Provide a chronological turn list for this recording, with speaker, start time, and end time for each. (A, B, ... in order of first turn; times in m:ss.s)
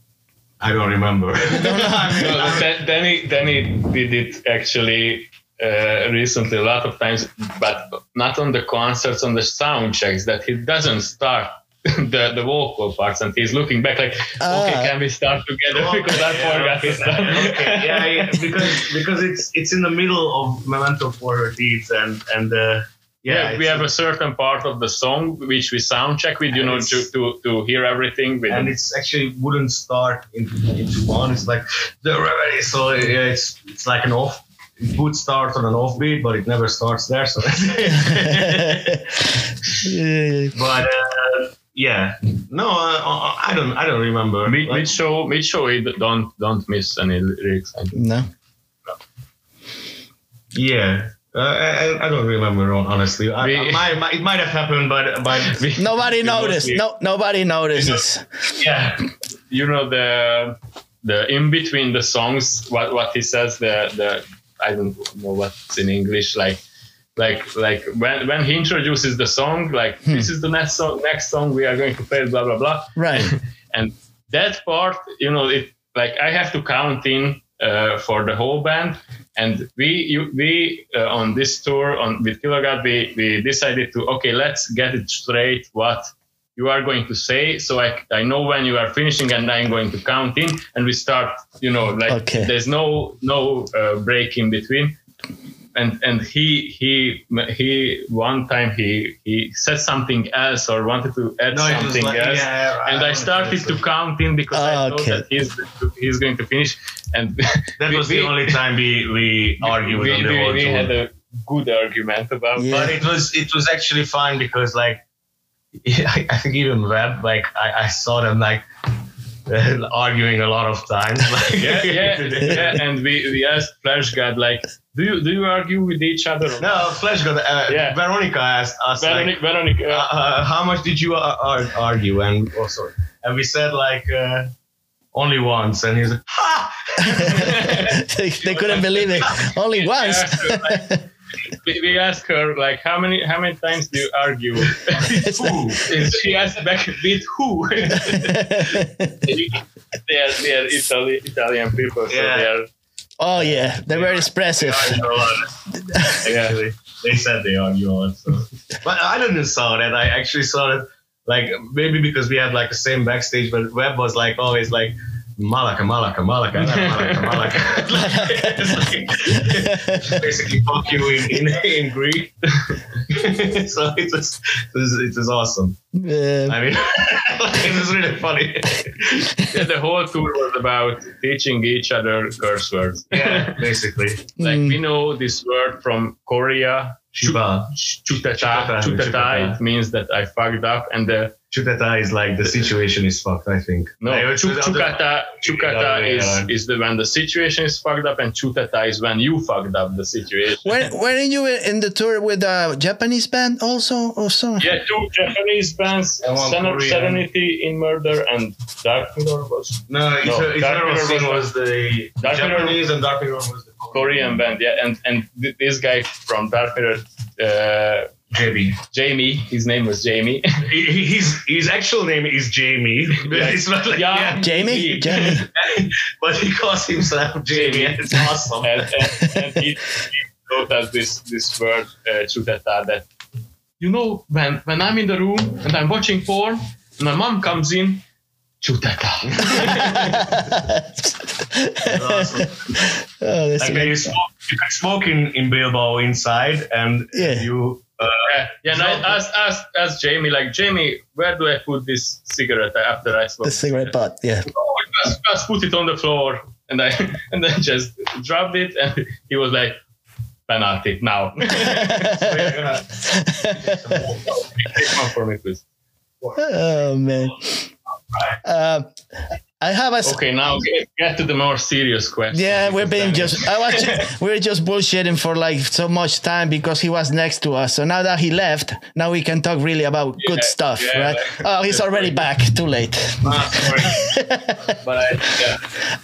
0:00.6-0:02.7 A
0:01.5-0:02.4 B
0:02.2-0:18.4 C
0:14.4-0:15.0 B
0:15.7-0:23.9 A
0:23.3-0:28.7 C
0:26.5-0:27.1 A
0:28.5-0:39.1 A
0:37.9-0:39.2 B
0:39.8-0:40.6 B
0:40.5-0:44.9 A
0:44.5-0:48.1 C
0:48.0-0:48.3 B
0:50.5-0:56.8 A
0:53.4-0:53.9 C
0:55.4-0:55.9 C
0:55.8-0:58.4 B
0:58.6-0:59.0 A
0:59.5-1:06.6 C
1:07.2-1:35.0 C
1:13.0-1:13.3 B
1:32.1-1:32.5 B
1:35.7-1:48.6 C
1:41.5-1:43.8 A
1:44.5-1:45.2 B
1:47.8-1:50.9 A
1:49.6-1:53.0 C
1:52.6-1:53.0 B
1:52.7-1:55.0 A
1:55.8-1:58.7 A
1:59.5-2:02.8 A
2:01.6-2:06.8 C
2:06.6-2:09.3 A
2:07.7-2:08.0 C
2:09.0-2:10.1 C
2:09.9-2:14.5 A
2:15.1-2:19.4 A
2:17.0-2:21.0 B
2:17.4-2:18.0 C
2:19.8-2:20.9 C
2:21.5-2:32.7 C
2:25.0-2:25.7 B
2:28.0-2:29.3 B
2:32.1-2:32.5 A
2:33.2-2:35.0 B
2:33.9-2:52.4 A
2:36.2-2:36.6 C
2:46.6-2:47.6 C
2:48.0-2:50.3 B
2:53.1-2:55.8 A
2:55.9-2:56.6 B
2:56.5-2:59.4 A
2:59.5-3:03.6 C
3:03.1-3:04.2 A
3:04.4-3:04.8 B
3:04.4-3:11.4 C
3:07.1-3:09.6 A
3:11.5-3:16.5 A
3:14.0-3:20.8 C
3:20.6-3:24.7 B
3:24.6-3:31.5 C
3:26.2-3:27.2 A
3:29.9-3:34.4 A
3:32.2-3:32.8 C
3:33.9-3:38.1 C
3:38.3-3:38.8 A
3:38.9-3:40.4 C
3:40.6-3:44.5 A
3:43.2-3:45.4 C
3:44.4-3:45.5 B
3:45.0-3:48.9 A
3:47.5-3:53.1 C
3:49.2-3:49.6 B
3:53.8-3:58.0 C
3:58.6-4:00.3 C
3:59.3-4:00.0 A
3:59.7-4:04.1 B
4:01.9-4:02.9 A
4:03.6-4:09.2 A
4:07.1-4:07.5 B
4:08.3-4:14.0 C
4:13.4-4:14.5 B
4:14.5-4:19.8 C
4:20.5-4:22.6 C
4:21.6-4:24.1 B
4:22.1-4:23.0 A
4:23.5-4:24.2 A
4:24.0-4:25.6 C
4:26.4-4:27.7 B
4:28.4-4:28.9 B
4:29.6-4:30.2 B
4:30.0-4:34.0 C
4:32.3-4:44.8 B
4:40.2-4:42.2 C
4:43.2-4:44.1 A
4:44.8-4:45.6 A